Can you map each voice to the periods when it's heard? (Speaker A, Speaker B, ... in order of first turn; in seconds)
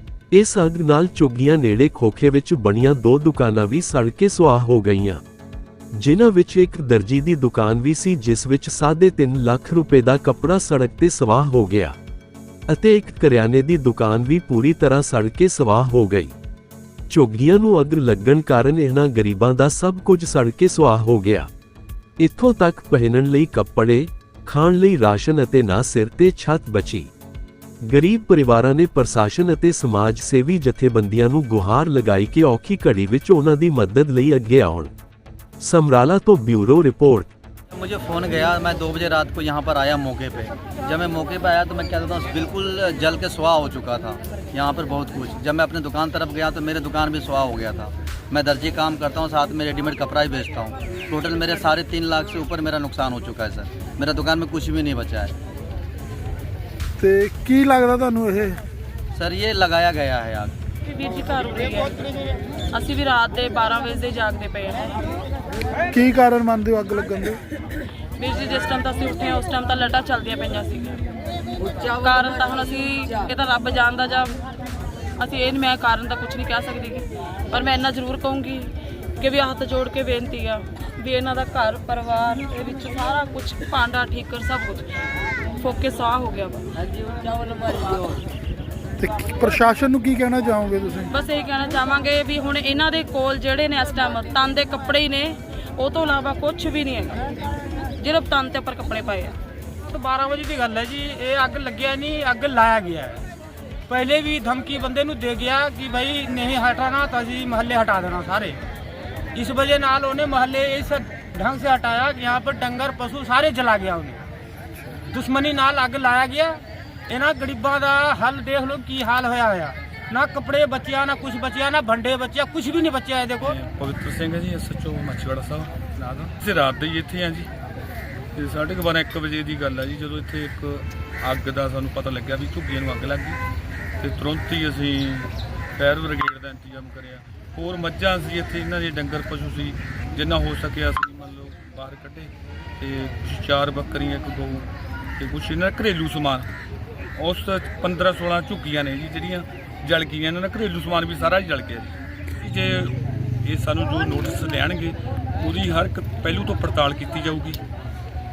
Speaker A: 0.3-5.2, 5.9-12.0, 12.7-16.3, 17.1-21.5, 22.2-27.1, 27.8-34.9, 35.6-37.3
Speaker B: 37.7-55.4, 59.1-60.6
Speaker C: 57.0-58.6, 65.9-67.4, 89.0-91.1
Speaker D: 60.9-62.2, 62.7-64.9, 68.2-71.0, 71.8-74.3, 75.2-84.8, 85.6-88.1, 91.1-97.3, 98.0-99.3
Speaker E: 99.9-103.2, 103.9-108.6, 109.3-114.3, 115.1-123.5
Speaker F: 123.4-127.5, 128.3-133.4, 134.0-144.7, 145.2-146.5, 147.2-157.6